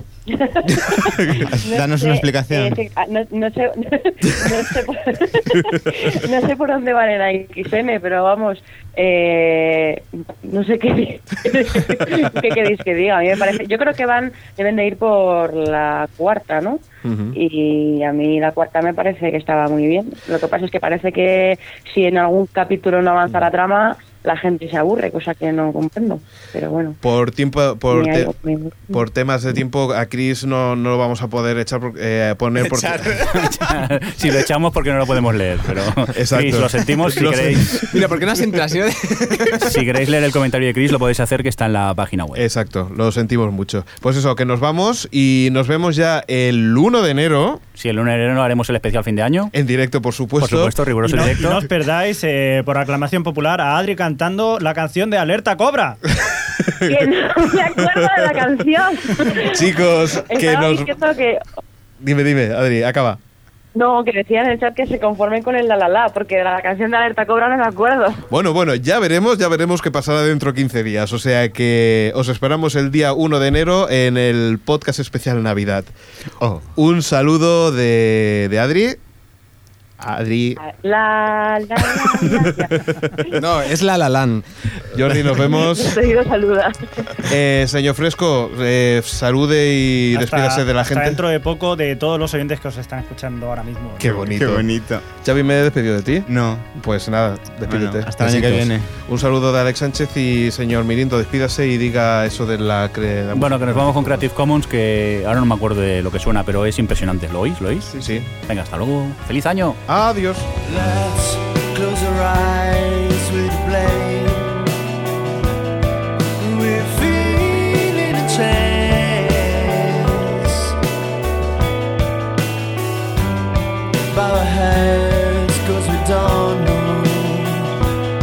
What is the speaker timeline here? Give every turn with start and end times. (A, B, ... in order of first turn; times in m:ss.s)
0:00.3-0:16.8 A
0:01.0-0:01.5 B
0:01.4-0:02.8 C
0:17.0-0:17.4 B
0:17.3-0:27.0 A
0:27.0-0:28.3 B
0:27.9-0:29.0 A
0:28.9-0:33.2 B
0:32.6-0:33.7 C
0:33.3-0:37.8 D
0:36.1-0:38.1 B
0:37.8-0:39.8 E
0:39.6-0:42.4 D
0:42.4-0:47.6 B
0:47.8-0:49.5 D
0:49.5-0:50.8 B
0:50.4-0:51.6 D
0:51.0-0:56.0 F
0:56.6-0:56.9 B
0:56.8-0:59.7 A
0:59.3-1:01.0 B
1:00.3-1:01.4 A
1:02.0-1:03.2 B
1:03.8-1:08.2 A
1:08.3-1:19.0 B
1:20.0-1:20.6 B
1:20.6-1:23.4 A
1:22.2-1:23.1 B
1:23.3-1:24.4 E
1:24.9-1:26.0 B
1:25.4-1:27.2 A
1:27.1-1:31.2 B
1:30.1-1:34.3 F
1:34.0-1:34.7 B
1:34.3-1:35.0 C
1:35.2-1:44.2 B
1:36.3-1:36.7 C
1:37.7-1:38.9 C
1:43.3-1:47.9 D
1:48.0-1:48.3 B
1:48.5-1:49.8 D
1:49.9-1:50.5 B
1:50.6-1:54.7 G
1:56.4-2:00.8 G
2:04.1-2:07.7 G